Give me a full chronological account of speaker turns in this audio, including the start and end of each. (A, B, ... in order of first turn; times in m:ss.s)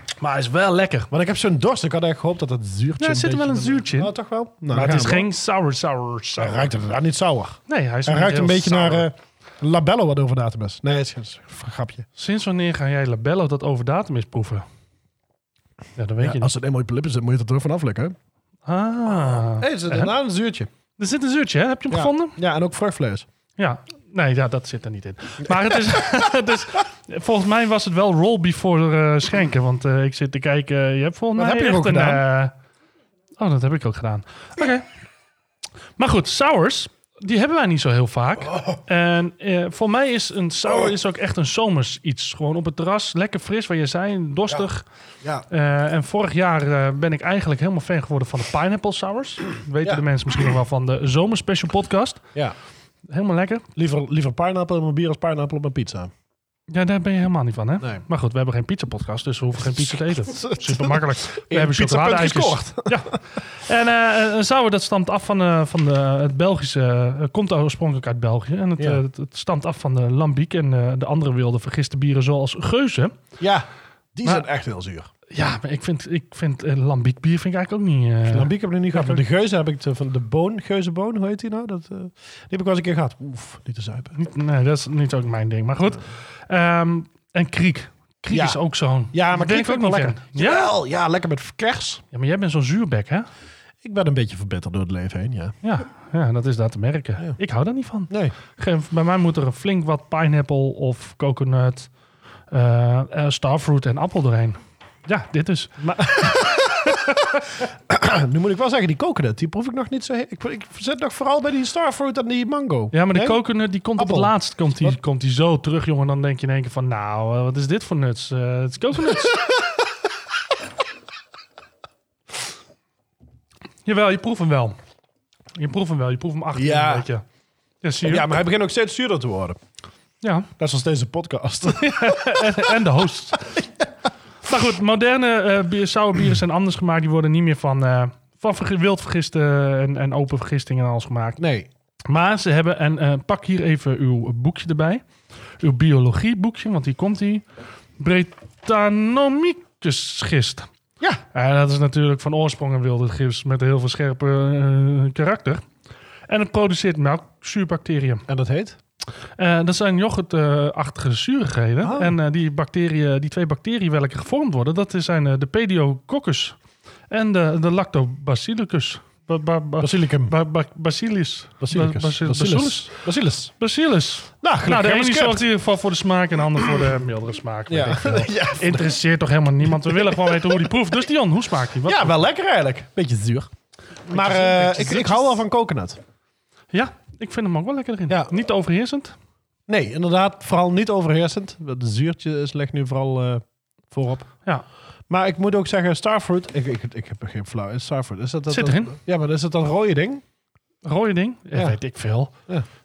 0:00.2-0:01.1 A
0:01.1-0:05.3 B
0:03.0-0:04.1 A
0:04.7-0:06.7 A
0:06.4-0:12.0 B
0:07.7-0:09.1 A
0:12.2-0:14.6 A
0:16.0-0:16.5 A
0:16.2-0:18.2 B
0:18.6-0:20.1 A
0:19.2-0:20.7 B
0:21.0-0:22.4 A
0:21.9-0:23.2 B
0:23.6-0:32.5 A
0:25.4-0:26.0 B
0:31.4-0:32.2 B
0:33.4-0:34.8 A
0:36.0-0:44.8 A
0:45.5-0:52.2 A
0:53.1-0:53.6 A
0:53.8-0:56.1 B
0:56.7-1:13.2 A
0:59.6-1:03.2 B
1:13.4-1:15.1 B
1:15.3-1:19.2 A
1:18.3-1:24.1 B
1:24.1-1:30.7 A
1:28.3-1:32.0 B
1:32.1-1:33.3 A
1:33.8-1:35.6 B
1:35.6-1:41.9 A
1:38.1-1:38.3 B
1:42.5-1:47.4 A
1:46.2-1:46.9 B
1:47.9-1:53.4 B
1:52.9-1:59.4 A
1:54.0-1:55.0 B
2:03.8-2:04.8 A
2:05.5-2:07.2 A
2:06.5-2:07.1 B
2:07.8-2:08.3 A
2:08.0-2:09.6 B
2:10.2-2:10.5 A
2:10.6-2:12.7 B
2:11.6-2:13.6 A
2:14.4-2:21.4 A
2:21.4-2:21.7 B
2:22.1-2:25.0 A
2:25.6-2:27.4 A
2:28.0-2:30.7 A
2:31.3-2:35.6 A
2:36.3-2:38.2 A
2:38.3-2:38.8 B
2:39.4-2:46.6 A
2:41.8-2:42.1 B
2:47.1-2:53.0 A
2:49.8-2:50.3 B
2:51.6-2:53.5 B
2:53.6-3:02.2 A
2:54.4-2:55.5 B
2:57.7-2:58.9 B
2:59.6-3:00.6 B
3:01.8-3:03.5 B
3:04.1-3:05.4 A
3:04.1-3:06.0 B
3:06.7-3:09.1 A
3:09.7-3:14.3 B
3:15.1-3:20.2 B
3:18.5-3:19.0 A
3:20.8-3:22.3 A